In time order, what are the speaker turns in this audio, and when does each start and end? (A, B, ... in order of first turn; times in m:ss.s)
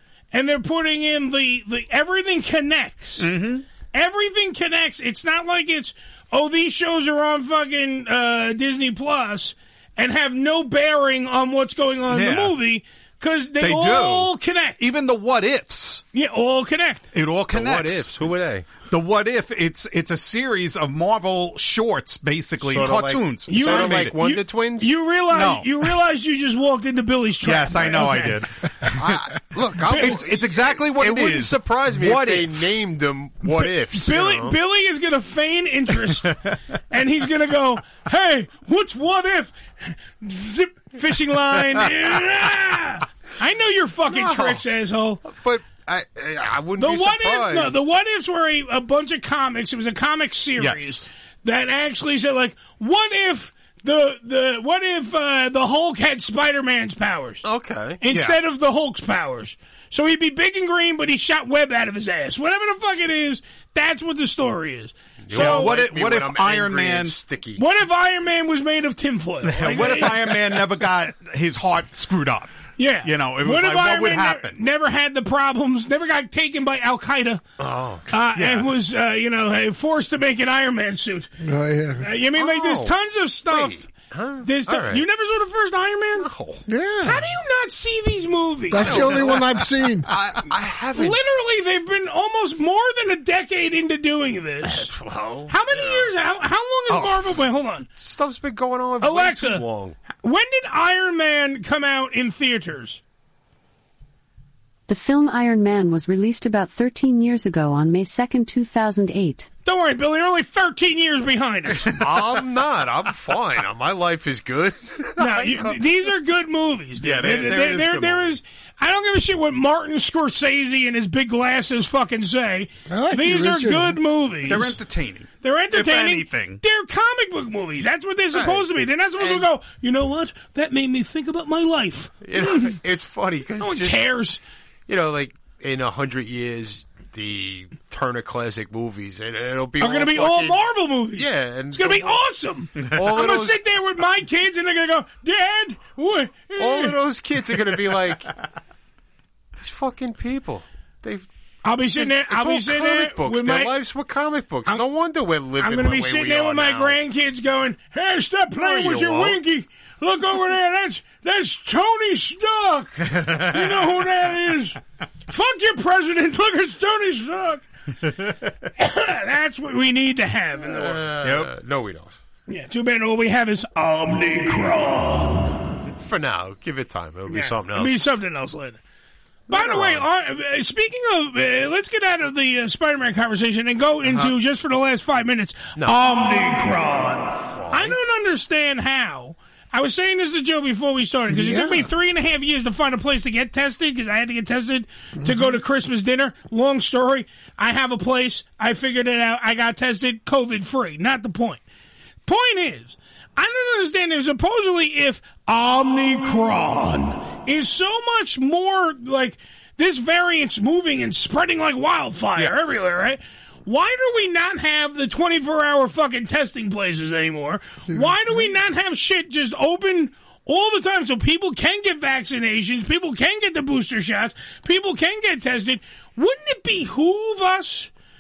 0:00.3-0:03.3 A
0:03.2-0:03.6 B
0:03.9-0:14.8 A
0:12.1-0:12.6 B
0:13.6-0:16.0 B
0:16.1-0:17.1 A
0:17.1-0:18.1 B
0:17.5-0:18.7 C
0:18.9-0:24.2 B
0:22.6-0:24.9 C
0:23.5-0:28.4 A
0:25.3-0:25.7 B
0:27.4-0:29.2 B
0:29.0-0:34.6 C
0:29.8-0:32.7 B
0:33.5-0:36.3 A
0:36.9-0:45.2 A
0:44.1-0:44.6 C
0:45.2-0:47.8 C
0:46.8-0:57.4 A
0:50.6-0:51.1 B
0:57.4-0:58.0 C
0:58.0-1:05.8 A
0:58.1-0:58.4 B
1:05.3-1:07.6 C
1:05.3-1:07.2 B
1:07.6-1:10.4 A
1:09.4-1:12.5 B
1:12.8-1:17.4 A
1:13.0-1:14.6 B
1:17.6-1:18.0 C
1:18.1-1:21.3 A
1:18.4-1:18.7 B
1:21.4-1:22.1 D
1:22.0-1:23.8 A
1:22.4-1:23.0 C
1:23.5-1:25.0 C
1:24.4-1:26.3 A
1:26.2-1:26.6 C
1:26.7-1:27.3 D
1:27.0-1:29.1 A
1:28.7-1:30.1 D
1:28.8-1:31.3 C
1:31.0-1:34.9 A
1:34.7-1:36.1 C
1:35.5-1:37.9 A
1:36.9-1:37.4 B
1:38.0-1:40.0 C
1:39.0-1:39.6 A
1:40.2-1:43.0 A
1:44.9-1:49.5 E
1:49.7-1:51.9 A
1:52.0-1:55.9 C
1:55.2-2:04.8 A
1:57.0-1:58.4 B
2:02.9-2:04.0 D
2:04.5-2:06.6 B
2:05.4-2:12.7 A
2:08.3-2:08.7 C
2:09.2-2:09.5 C
2:12.2-2:14.1 C
2:13.6-2:14.4 A
2:14.9-2:20.6 C
2:19.8-2:27.0 A
2:21.2-2:22.2 C
2:22.8-2:23.1 B
2:22.9-2:23.6 C
2:26.6-2:28.3 C
2:29.6-2:31.2 C
2:31.6-2:33.7 A
2:31.9-2:37.0 C
2:35.6-2:44.8 A
2:38.6-2:39.4 C
2:43.1-2:43.9 B
2:45.3-2:47.6 A
2:48.1-2:48.5 B
2:48.8-2:51.0 A
2:50.7-2:52.2 C
2:51.2-2:51.5 B
2:52.5-2:55.6 A
2:55.9-2:58.1 C
2:57.3-2:58.8 A
2:59.5-3:21.6 A
2:59.5-3:00.1 C
3:07.5-3:08.0 C
3:11.3-3:11.9 D
3:15.2-3:15.5 D
3:22.3-3:47.9 A
3:32.4-3:32.9 B
3:37.9-3:38.5 D